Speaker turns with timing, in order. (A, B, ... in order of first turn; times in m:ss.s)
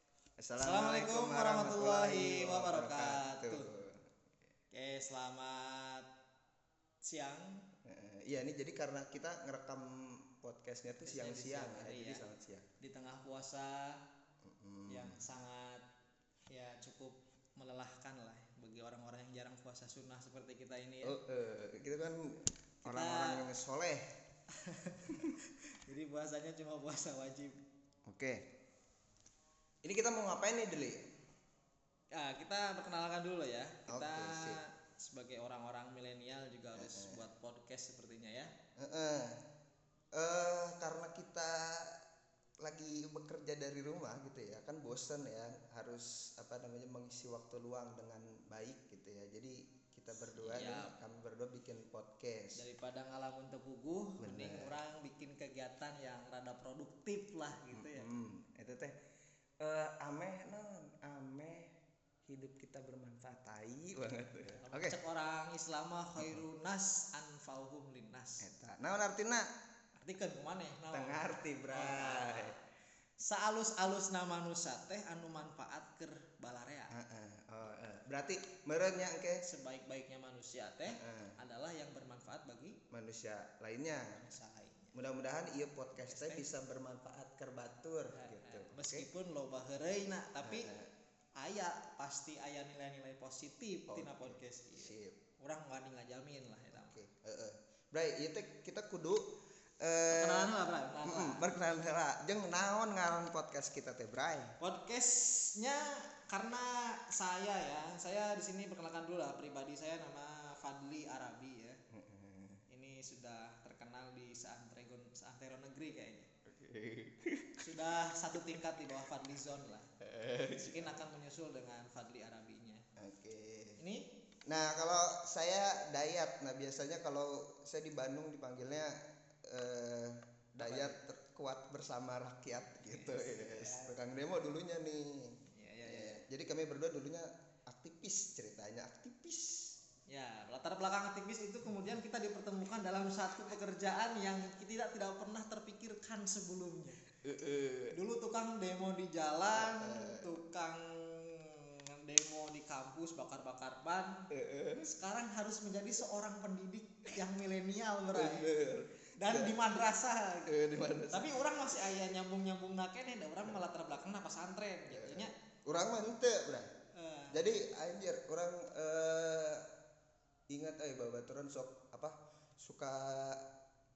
0:00.4-0:04.1 A
0:00.6-0:03.6 B
0:04.7-0:06.0 B
0:07.0-0:07.6 B
0:07.8-0:12.6 A
0:11.0-0:12.2 B
0:12.8-0:13.9 B
0:14.4-0:15.2 A
0:14.9-0:15.8 B
0:16.5-0:21.2 B
0:21.0-0:24.0 A
0:22.8-0:23.4 B
0:24.5-0:25.3 B
0:25.8-0:27.6 B
0:28.1-0:28.4 A
0:29.8-0:31.0 A
0:32.1-0:38.5 B
0:33.9-0:34.6 A
0:36.8-0:37.2 A
0:38.8-0:39.4 A
0:40.1-0:42.0 A
0:42.6-0:52.6 A
0:50.4-0:50.9 B
0:52.5-0:58.1 B
0:54.2-0:54.8 A
0:57.7-0:59.0 A
0:59.6-1:01.7 A
1:02.2-1:05.0 A
1:04.5-1:08.5 B
1:08.4-1:09.4 A
1:10.0-1:12.5 B
1:10.9-1:12.5 A
1:13.2-1:16.9 B
1:16.9-1:19.4 A
1:19.4-1:22.8 B
1:20.9-1:21.4 A
1:22.9-1:24.2 A
1:24.2-1:24.9 B
1:24.9-1:29.0 A
1:25.9-1:26.4 B
1:28.1-1:30.7 B
1:30.4-1:30.9 A
1:31.4-1:37.0 B
1:33.9-1:35.2 A
1:36.7-1:39.3 A
1:39.8-1:40.5 A
1:40.1-1:41.4 B
1:41.0-1:44.5 A
1:44.6-1:51.8 B
1:51.9-1:52.6 A
1:52.7-1:56.3 B
1:56.5-1:57.6 A
1:57.6-1:59.9 B
2:00.0-2:01.0 A
2:00.5-2:02.8 B
2:03.0-2:03.8 A
2:04.5-2:19.7 A
2:10.6-2:11.0 B
2:12.9-2:13.9 B
2:15.5-2:16.2 B
2:20.1-2:27.0 B
2:27.2-2:27.9 A
2:27.9-2:34.2 B
2:29.5-2:30.3 A
2:34.3-2:34.9 A
2:34.8-2:38.5 B
2:38.1-2:39.5 A
2:39.2-2:40.5 B
2:40.5-2:41.9 A
2:41.1-2:45.3 B
2:44.9-2:46.7 A
2:46.9-2:47.4 B
2:47.3-2:49.7 A
2:50.5-2:53.4 A